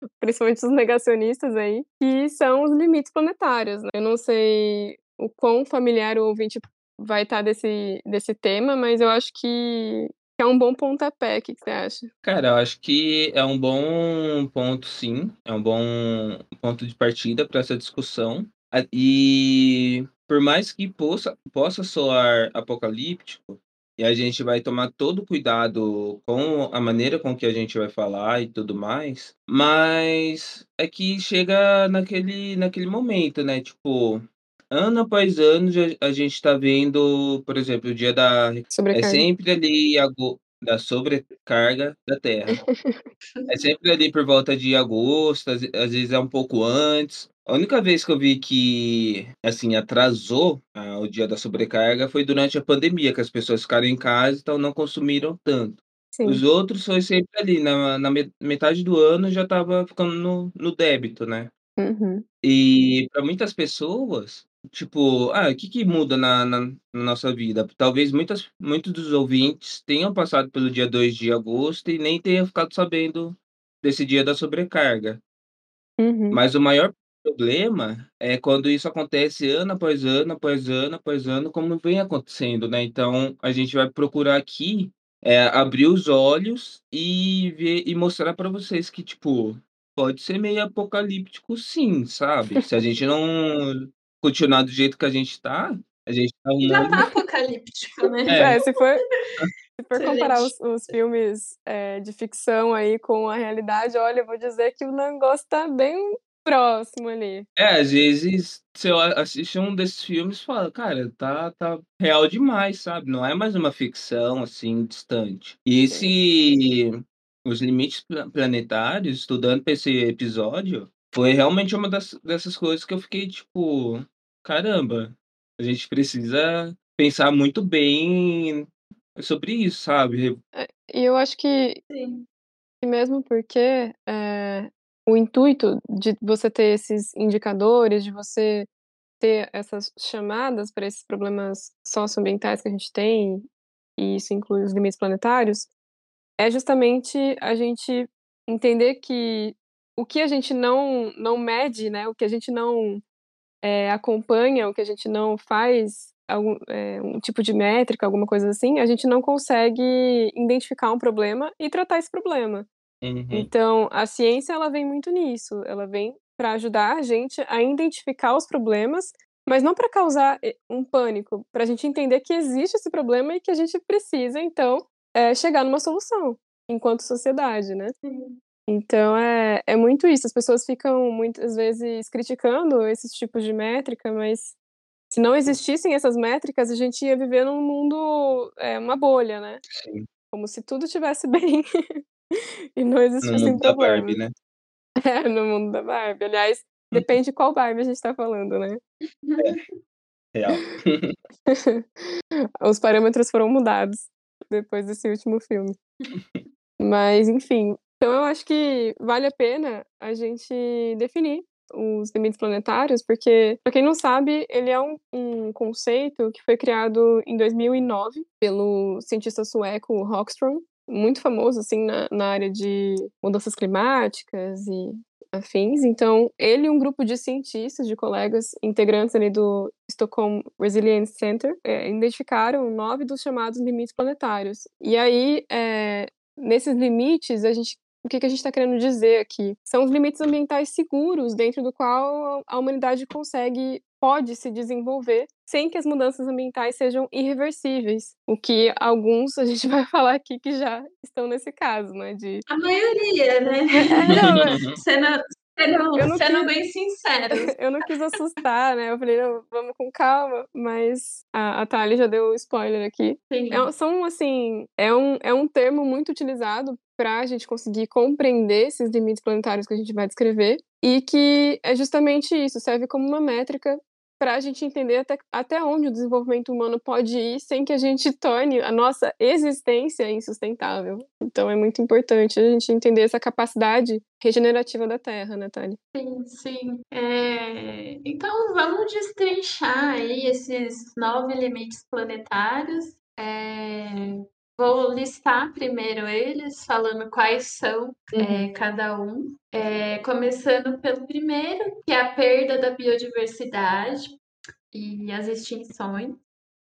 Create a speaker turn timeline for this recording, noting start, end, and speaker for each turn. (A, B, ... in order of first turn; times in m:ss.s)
0:00.2-0:12.1 A
0:12.2-0:42.6 B
0:38.7-0:39.2 A
0:42.5-0:43.1 A
0:43.5-1:01.5 B
0:56.1-0:56.4 A
1:01.8-1:02.2 A
1:02.4-1:15.2 B
1:16.0-1:16.4 A
1:16.3-1:37.0 B
1:36.6-1:38.7 C
1:38.3-1:39.0 A
1:38.3-1:38.6 B
1:39.8-1:47.5 A
1:39.9-1:40.5 C
1:47.6-2:10.4 B
2:10.5-2:11.8 A
2:11.9-2:12.2 C
2:12.8-2:18.7 A
2:19.2-2:25.7 A
2:26.4-2:33.0 A
2:33.6-2:42.7 A
2:43.0-2:43.5 B
2:43.3-2:57.9 A
2:58.0-2:58.4 C
2:58.7-3:04.5 A
3:05.1-3:09.6 A
3:09.7-3:10.1 B
3:10.3-3:14.2 A
3:13.2-3:14.3 B
3:15.0-3:18.8 A
3:19.2-3:19.6 C
3:20.3-3:21.1 B
3:21.5-3:21.8 A
3:22.6-3:25.8 A
3:26.8-4:12.4 A
4:12.5-4:17.5 C
4:13.8-4:14.6 A
4:14.2-4:14.8 B
4:16.0-4:16.5 A
4:17.3-4:45.8 A
4:23.3-4:23.7 C
4:45.9-5:04.2 C
4:58.1-4:58.5 A
5:04.7-5:06.2 C